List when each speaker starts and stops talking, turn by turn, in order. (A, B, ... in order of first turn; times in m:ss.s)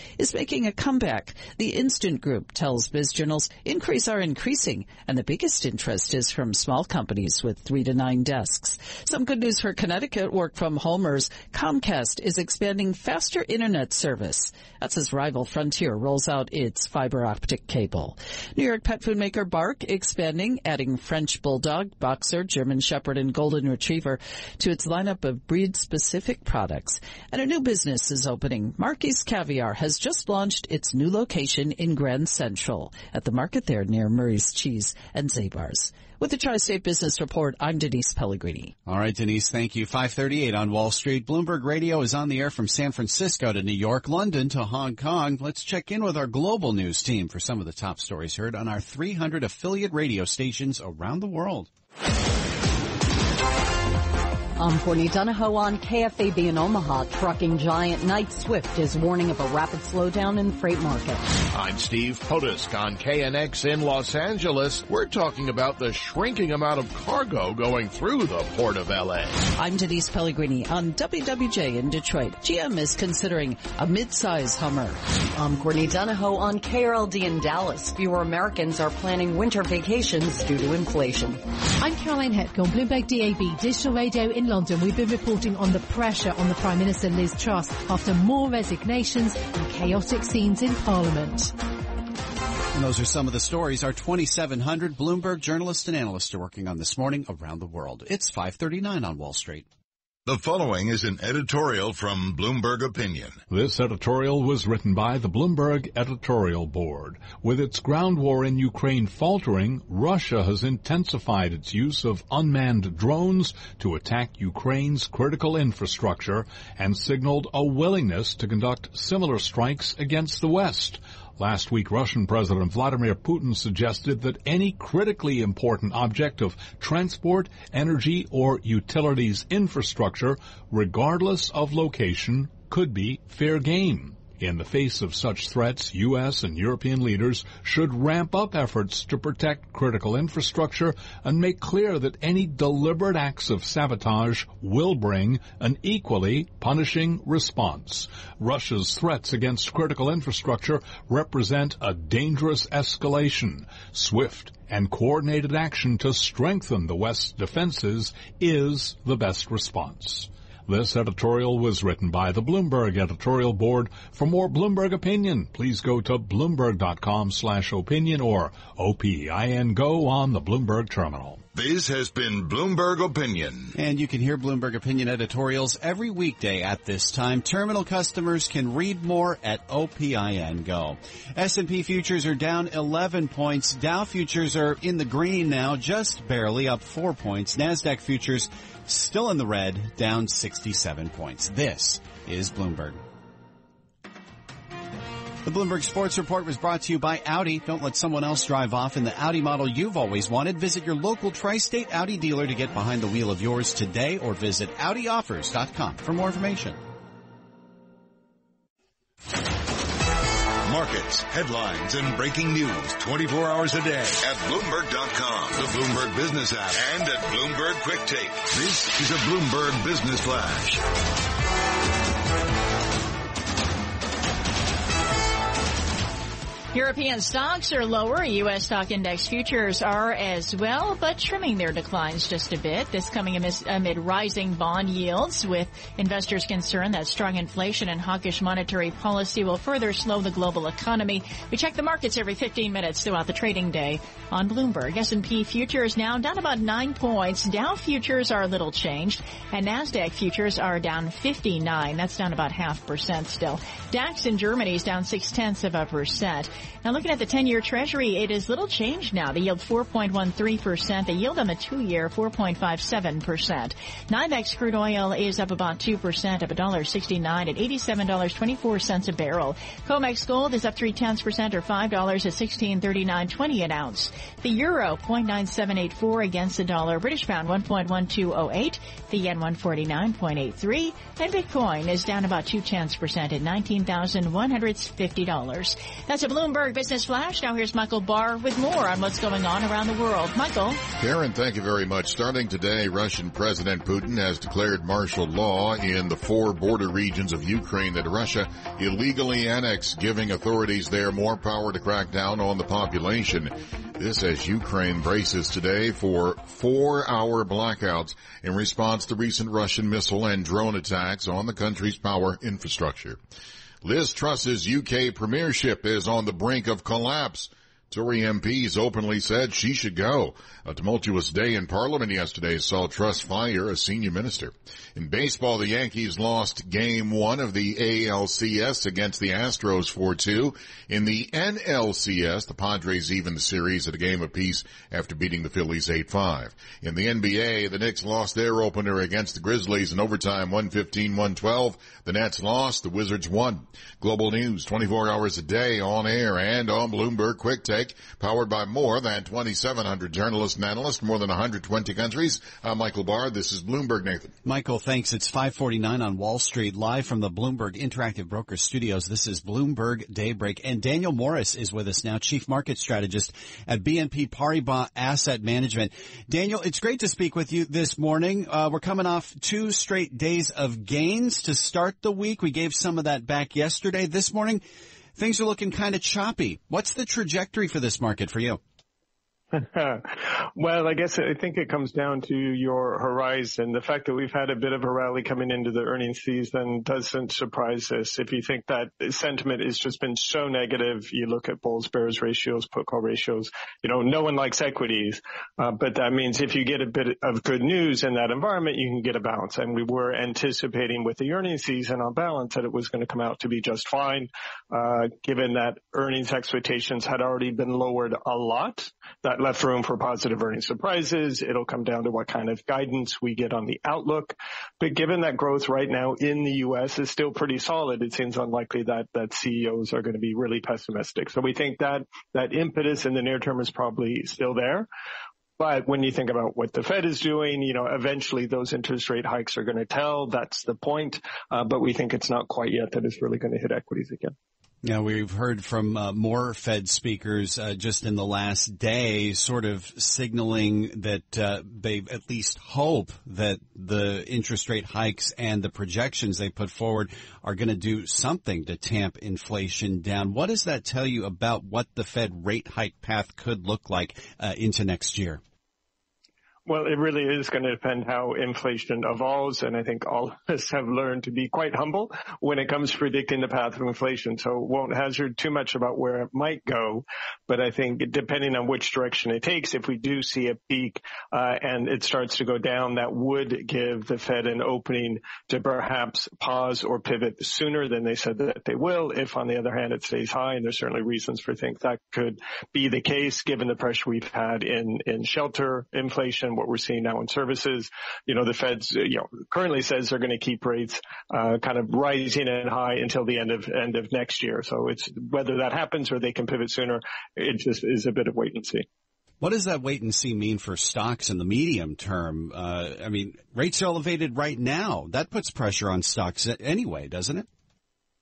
0:00.2-0:38.7 A
0:38.9-0:51.7 B
0:54.6-1:01.2 C
1:01.5-1:09.4 D
1:09.6-1:15.0 A
1:15.4-1:21.4 C
1:21.8-1:31.5 E
1:32.7-1:39.7 B
1:40.3-1:43.4 F
1:43.5-2:51.4 G
2:51.5-2:53.8 F
2:53.8-3:13.0 B
3:15.4-3:26.8 B
3:30.7-3:40.8 F
3:46.7-4:50.8 H
4:51.0-5:13.2 I
5:13.8-5:54.4 I
5:54.4-6:14.6 B
6:15.2-6:18.6 B
6:19.5-7:04.9 J
7:05.6-7:14.4 J
7:14.8-7:35.4 B
7:36.7-8:18.9 J
8:19.4-8:27.5 B